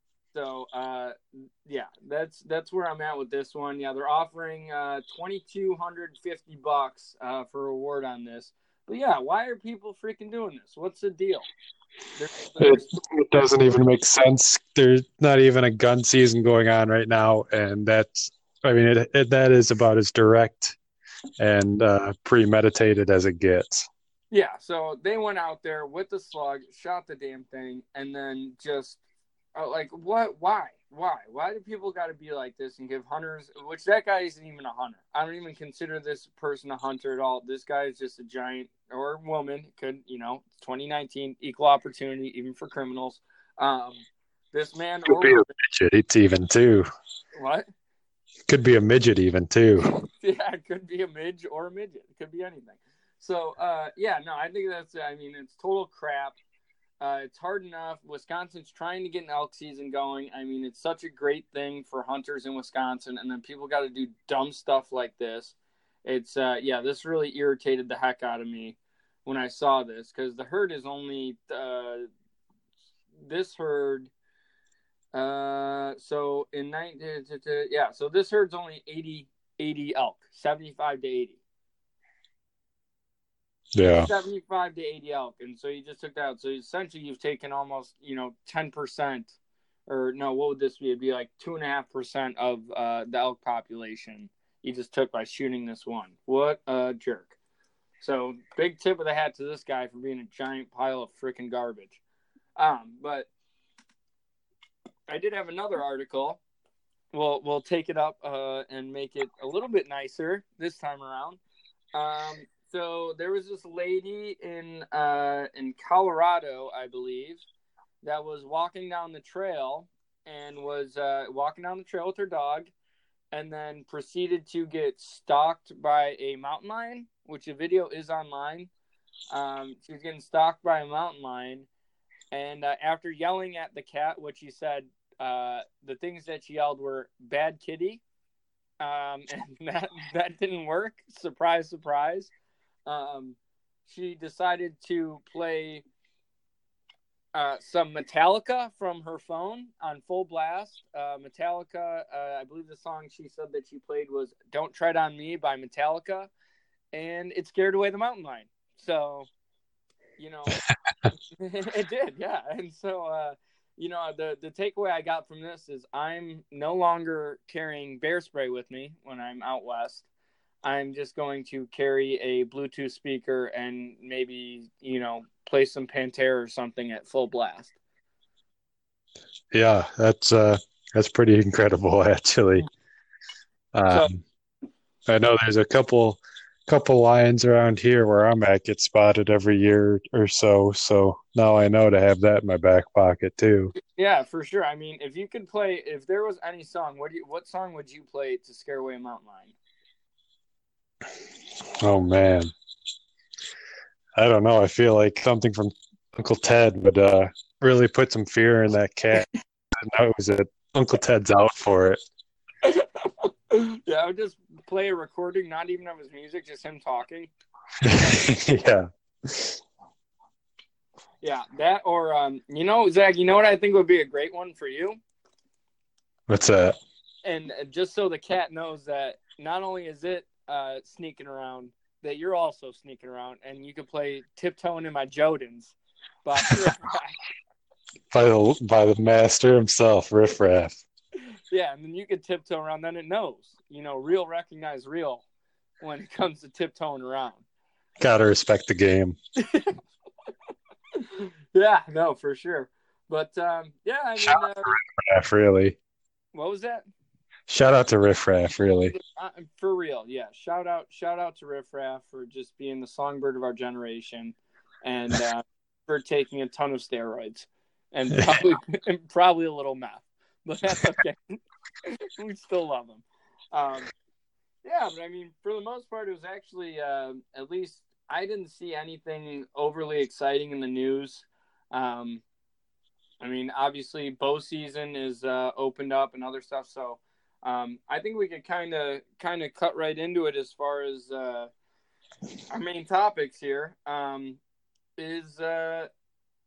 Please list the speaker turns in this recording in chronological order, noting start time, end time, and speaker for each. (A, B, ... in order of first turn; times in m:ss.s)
0:00.3-0:11.5 A
0:12.2-0:13.0 A
0:12.6-0:20.8 B
0:21.4-0:23.9 B
0:24.3-0:29.0 A
0:29.6-0:45.4 A
0:45.1-0:46.9 B
0:47.4-0:47.7 A
0:48.5-0:49.9 B
0:50.2-0:56.4 A
0:57.0-1:12.1 A
1:13.2-1:14.1 A
1:15.1-1:21.4 A
1:23.8-1:24.1 B
1:23.9-1:29.4 A
1:29.9-1:37.4 A
1:38.0-1:42.0 A
1:42.6-1:43.3 A
1:45.1-1:46.4 A
1:47.1-1:51.4 A
1:52.0-1:57.4 A
1:58.0-2:02.7 A
2:03.3-2:08.7 A
2:09.3-2:11.7 A
2:12.3-2:18.0 A
2:18.8-2:22.3 A
2:22.9-2:25.9 A
2:27.4-2:36.3 A
2:36.9-2:39.3 A
2:40.2-2:40.6 A
2:41.4-2:50.0 A
2:50.6-2:57.7 A
2:59.5-3:02.7 B
3:03.7-3:04.2 B
3:05.1-3:13.7 B
3:13.8-3:19.6 A
3:21.8-3:22.5 B
3:24.2-3:32.0 B
3:32.6-3:37.3 A
3:37.8-3:39.6 B
3:41.2-3:45.0 A
3:46.3-3:46.8 B
3:47.2-3:57.2 A
3:58.1-4:00.8 B
4:01.5-4:05.2 A
4:05.8-4:07.4 A
4:08.0-4:09.2 B
4:09.4-4:09.8 A
4:11.0-4:14.8 A
4:14.2-4:15.8 B
4:16.3-4:16.9 A
4:17.5-4:19.0 B
4:18.9-4:33.9 A
4:34.6-4:42.2 A
4:43.2-4:51.5 A
4:52.5-4:54.4 A
4:55.0-4:55.9 A